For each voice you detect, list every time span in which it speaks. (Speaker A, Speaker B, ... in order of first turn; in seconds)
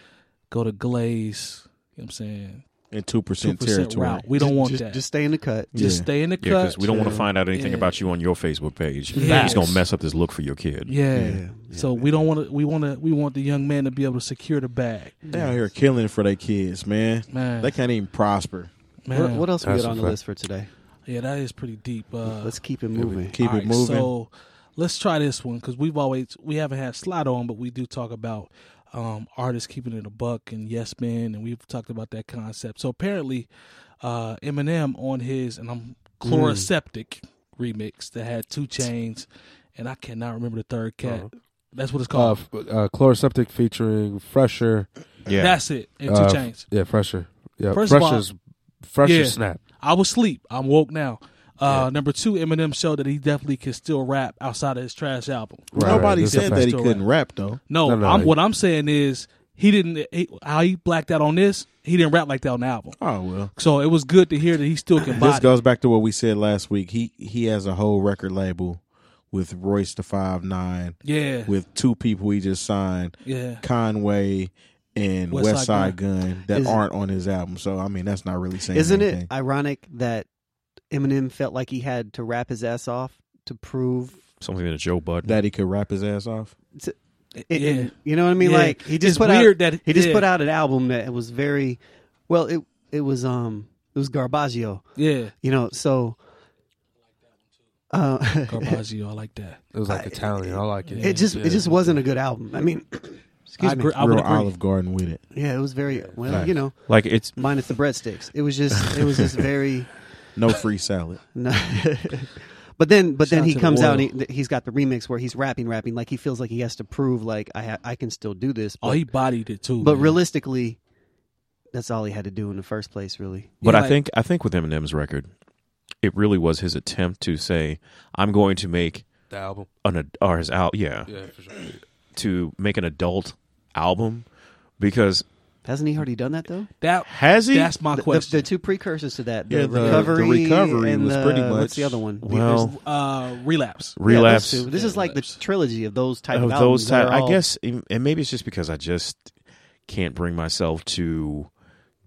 Speaker A: 0.5-2.6, 3.4-5.0, 5.7-6.9, 7.5-8.0, 9.2-9.6, 10.8-15.2, 17.3-17.8, 19.1-19.5, 21.1-22.6, 23.4-33.5, 34.0-42.4, 45.3-46.7, 47.7-48.2, 49.0-57.0, 57.7-63.0, 63.5-65.5, 71.0-71.5, 73.2-73.6, 75.3-76.0, 87.3-90.3, 95.0-95.3, 98.5-99.6, 100.8-101.3, 103.6-104.5, 113.2-114.1, 118.8-120.2, 123.6-124.0, 136.8-138.4, 142.6-145.4
Speaker B: 2.9-4.3, 5.7-6.1, 15.3-18.7, 23.3-24.1, 55.7-57.6, 63.0-63.5, 65.1-79.3, 85.2-86.5, 103.8-105.2, 110.3-111.2, 139.5-142.0
Speaker C: 4.3-5.9, 6.8-7.3, 9.1-9.8, 11.2-12.1, 15.2-15.7, 19.1-20.7, 22.3-23.4, 76.5-76.8, 78.7-80.3, 80.9-84.2, 87.5-96.2, 97.9-98.8, 99.9-103.9, 105.3-106.8, 107.3-110.0, 111.3-119.1, 119.8-120.8, 121.7-123.6, 135.6-136.7, 137.9-142.7, 144.1-147.4
Speaker D: 6.4-10.9, 45.2-45.6, 84.4-85.4, 106.9-107.6, 123.6-125.3, 126.0-129.1, 129.8-131.1, 132.1-134.3, 134.8-135.2, 137.0-137.7, 142.2-142.8, 144.0-144.7, 146.3-149.3, 149.9-151.5
Speaker E: 9.3-9.6, 19.6-20.1, 36.2-36.7, 41.0-41.3, 42.1-44.9, 46.0-49.6, 55.7-56.7, 57.8-58.3, 99.7-102.0, 106.2-106.5, 129.3-129.7, 131.1-131.8